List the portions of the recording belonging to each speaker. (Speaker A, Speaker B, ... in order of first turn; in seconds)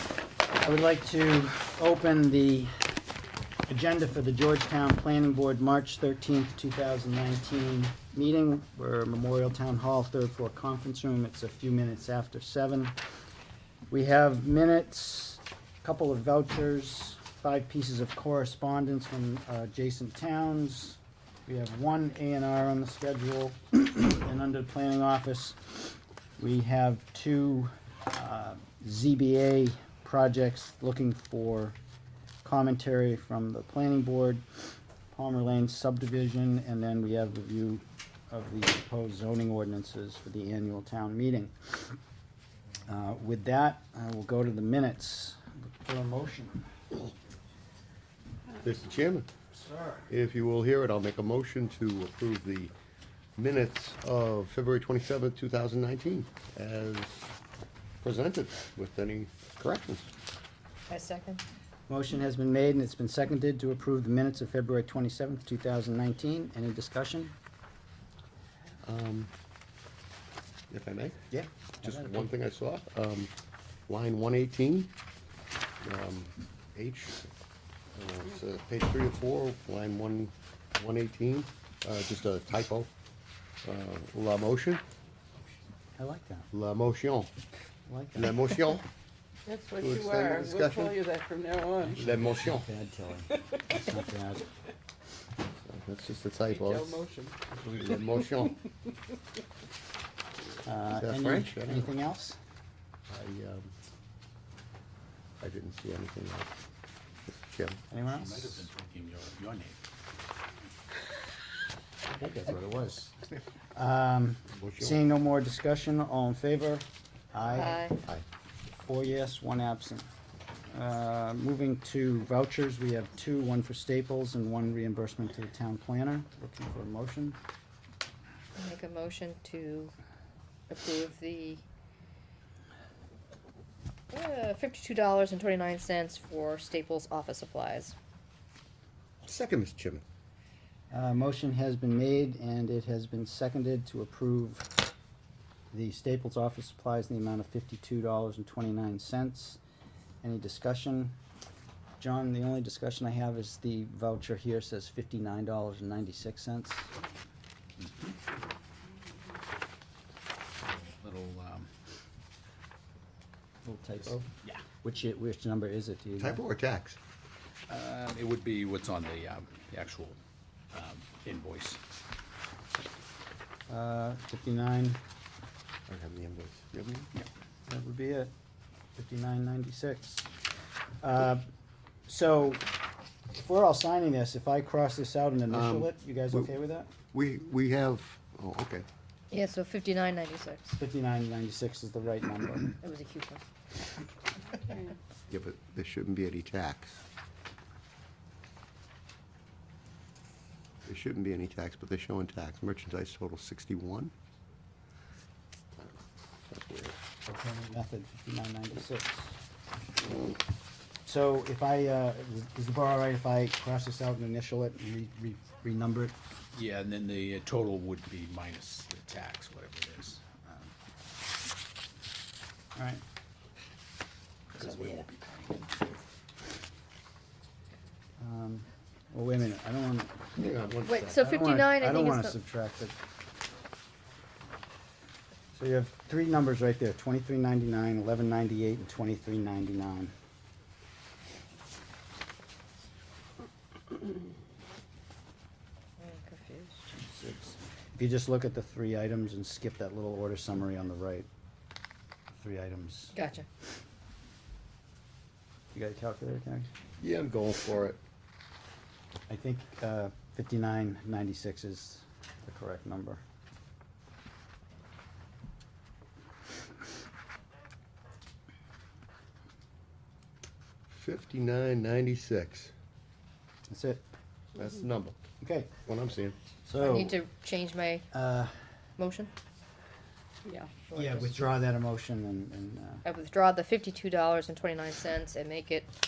Speaker A: 0.6-3.0, 3.7-12.9, 13.9-31.8, 32.4-42.0, 42.9-46.7, 49.6-50.1, 61.9-67.3, 71.3-72.3, 86.0-86.5, 87.9-88.4, 91.9-94.5, 100.6-102.4, 107.9-108.6, 113.7-118.0, 118.8-120.1, 120.7-127.4, 140.9-144.7, 145.7-149.6, 150.2-151.2, 152.0-156.9, 163.7-164.3, 164.8-166.4, 173.7-175.0, 177.7-178.3, 179.0-180.3, 181.0-181.4, 182.1-182.7, 183.3-186.9, 190.8-192.8, 207.3-209.4, 211.1-216.2, 222.8-223.0, 228.2-230.3, 231.2-232.9, 235.5-240.1, 247.0-251.3, 252.3-253.2, 255.7-256.7, 259.3-263.2, 273.7-274.1, 275.4-275.7, 276.7-277.2, 278.1-278.5, 280.9-283.0
Speaker B: 48.6-49.3, 50.1-52.7, 53.4-57.3, 58.0-60.1, 68.8-69.3, 70.7-71.3, 71.8-73.3, 73.9-74.9, 75.8-77.3, 77.9-82.9, 83.6-84.8, 86.5-87.3, 88.2-88.8, 89.8-91.0, 92.0-92.7, 95.6-98.7, 100.9-101.9, 103.1-103.7, 105.4-106.5, 107.3-107.8, 114.6-115.0, 139.2-140.0, 166.2-167.0, 175.9-177.1, 185.5-186.5, 187.1-188.9, 195.3-197.0, 200.9-204.1, 205.8-207.0, 230.4-231.2, 257.0-258.0, 270.9-272.7, 274.6-275.2, 275.9-276.4
Speaker C: 60.9-61.4, 117.5-118.0, 128.6-129.9, 130.7-131.6, 134.1-137.9, 189.3-190.8, 192.8-193.4, 230.8-232.4, 246.0-246.8, 253.1-253.5, 276.8-278.1, 279.0-279.3, 283.1-285.9
Speaker D: 89.5-92.0, 96.5-97.4, 194.5-194.9, 280.5-280.9
Speaker E: 108.2-109.8, 112.3-113.0, 157.8-158.1, 161.0-161.7, 167.7-170.2, 170.7-171.8, 216.6-220.2, 224.6-225.3